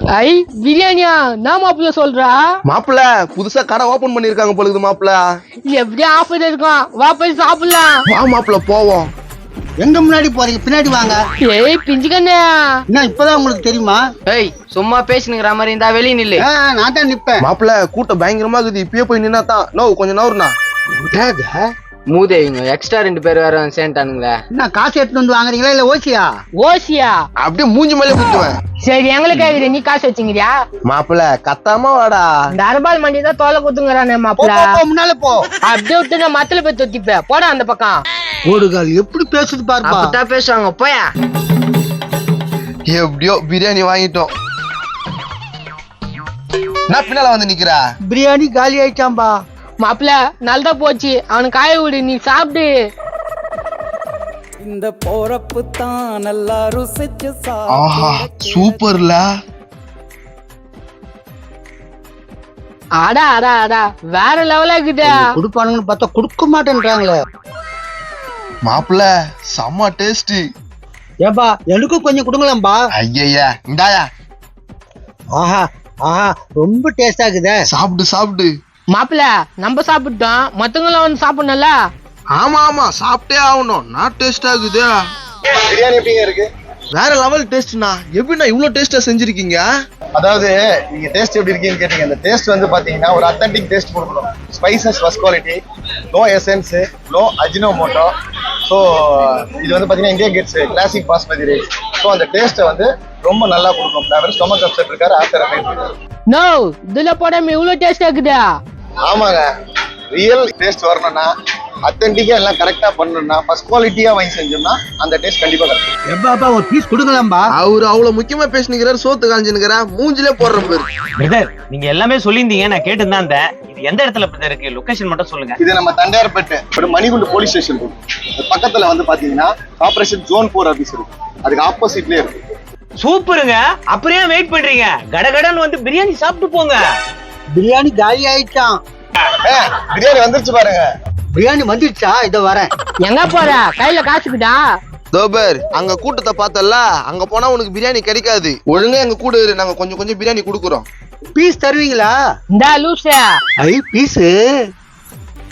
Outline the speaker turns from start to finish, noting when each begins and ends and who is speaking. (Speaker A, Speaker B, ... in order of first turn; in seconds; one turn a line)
Speaker A: 0.1-2.4
Speaker B: 2.7-5.2
Speaker A: 5.7-7.9
Speaker B: 8.1-9.1
Speaker C: 9.8-11.2
Speaker A: 11.4-12.5
Speaker C: 12.9-14.0
Speaker D: 14.3-16.4
Speaker C: 16.4-17.4
Speaker B: 17.4-20.5
Speaker C: 21.1-21.6
Speaker D: 22.1-24.4
Speaker C: 24.6-26.2
Speaker A: 26.6-27.1
Speaker B: 27.4-28.6
Speaker A: 28.8-30.5
Speaker B: 30.9-32.3
Speaker A: 32.5-34.8
Speaker C: 34.4-35.4
Speaker A: 35.7-38.0
Speaker C: 38.5-40.1
Speaker D: 39.8-41.1
Speaker B: 42.9-44.3
Speaker B: 46.9-47.8
Speaker C: 48.1-49.3
Speaker A: 49.8-52.7
Speaker E: 54.6-58.8
Speaker B: 57.7-59.2
Speaker A: 63.0-65.3
Speaker C: 65.1-67.2
Speaker B: 68.7-70.5
Speaker C: 71.2-72.8
Speaker B: 73.0-74.1
Speaker C: 75.3-77.6
Speaker B: 77.7-78.5
Speaker A: 78.9-81.7
Speaker B: 82.3-84.9
Speaker F: 85.7-86.5
Speaker B: 86.9-89.6
Speaker F: 90.2-95.6
Speaker F: 96.1-98.1
Speaker F: 98.7-105.9
Speaker A: 106.3-108.5
Speaker F: 109.1-109.4
Speaker F: 110.1-111.3
Speaker F: 111.8-115.8
Speaker C: 116.1-117.5
Speaker B: 117.5-120.9
Speaker G: 121.2-125.6
Speaker F: 125.6-132.3
Speaker G: 133.0-136.8
Speaker C: 137.6-138.7
Speaker F: 139.4-140.9
Speaker C: 141.3-142.7
Speaker A: 143.0-144.6
Speaker B: 145.1-150.8
Speaker C: 151.3-152.1
Speaker A: 152.5-153.3
Speaker C: 153.6-154.3